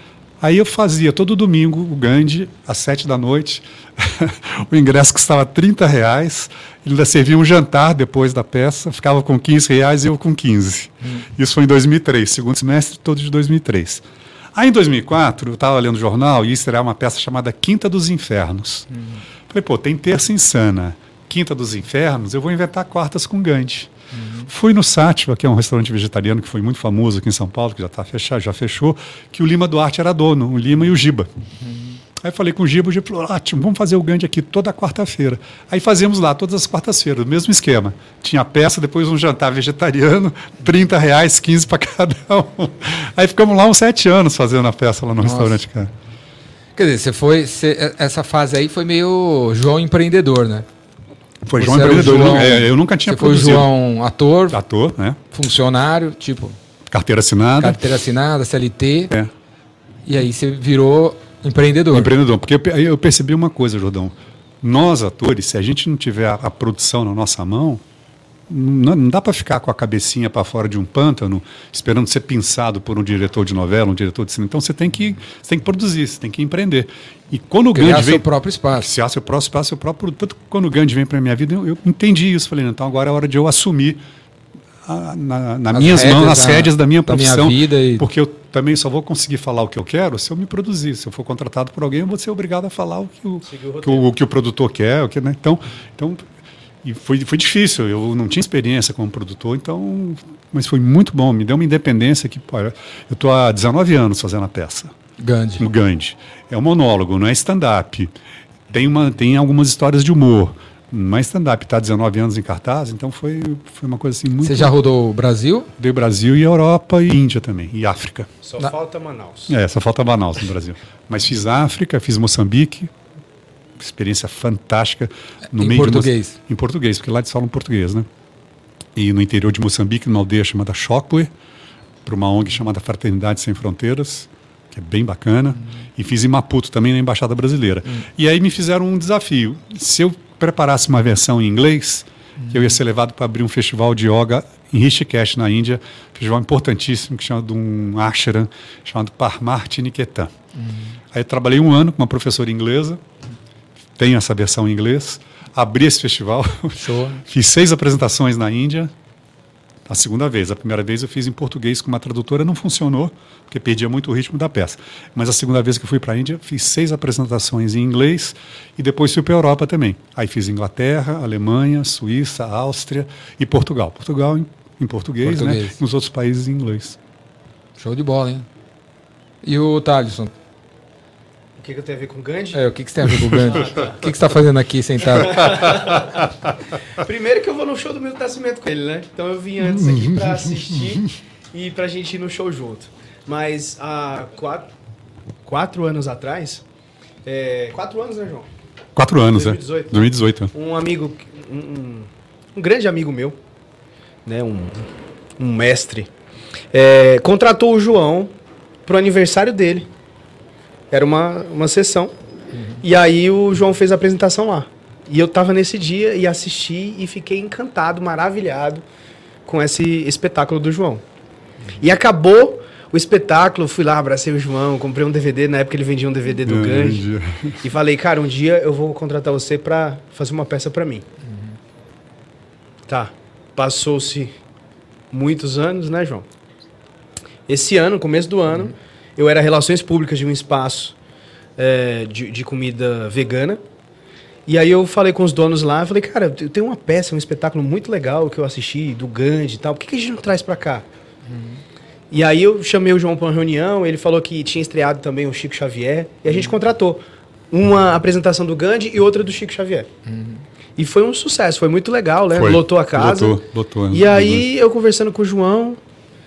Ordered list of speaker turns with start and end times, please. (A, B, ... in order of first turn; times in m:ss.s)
0:00.4-0:18.9 A
0:19.5-0:23.9 A
0:24.1-0:24.5 B
0:24.5-0:31.3 A
0:31.6-0:32.0 B
0:32.2-0:45.9 A
0:45.2-0:45.6 B
0:46.8-0:50.7 B
0:51.4-0:53.7 A
0:51.6-0:54.6 B
0:54.5-0:55.2 A
0:55.3-0:56.6 B
0:56.9-0:57.8 A
0:57.6-0:59.1 B
1:00.1-1:02.1 B
1:01.9-1:07.8 A
1:08.5-1:18.2 A
1:17.7-1:18.9 B
1:18.8-1:24.0 A
1:24.8-1:36.2 A
1:25.7-1:28.1 B
1:33.5-1:34.1 C
1:36.8-1:44.9 A
1:45.2-1:45.6 B
1:45.6-1:48.1 A
1:48.7-1:54.7 A
1:54.4-1:55.7 B
1:55.8-1:58.3 A
1:58.4-1:59.5 C
1:59.5-2:02.9 A
2:03.8-2:08.1 A
2:05.5-2:06.4 B
2:09.0-2:11.3 A
2:12.0-2:30.3 A
2:22.4-2:22.7 B
2:30.6-2:31.0 B
2:31.1-2:33.0 A
2:34.0-2:38.9 A
2:36.8-2:37.2 B
2:39.9-2:57.0 A
2:55.2-2:55.8 B
2:57.8-2:58.5 B
2:59.4-3:00.3 B
3:01.6-3:02.6 C
3:02.5-3:05.7 B
3:03.1-3:03.4 A
3:03.5-3:04.0 C
3:05.2-3:06.3 C
3:05.7-3:06.2 A
3:06.9-3:14.7 C
3:09.7-3:11.1 A
3:15.4-3:16.6 C
3:17.2-3:18.5 C
3:19.0-3:20.5 A
3:19.3-3:23.4 C
3:24.3-3:24.9 C
3:25.4-3:26.1 C
3:26.7-3:28.3 C
3:28.9-3:29.9 C
3:30.9-3:32.1 C
3:32.8-3:38.8 C
3:39.5-3:41.0 C
3:41.8-3:47.1 C
3:46.4-3:47.6 A
3:47.6-3:51.0 C
3:52.9-3:54.3 C
3:55.1-3:56.3 C
3:57.5-4:01.0 C
4:01.6-4:03.6 C
4:04.5-4:10.8 C
4:12.1-4:19.9 C
4:20.1-4:20.4 B
4:20.8-4:25.8 C
4:22.3-4:24.5 A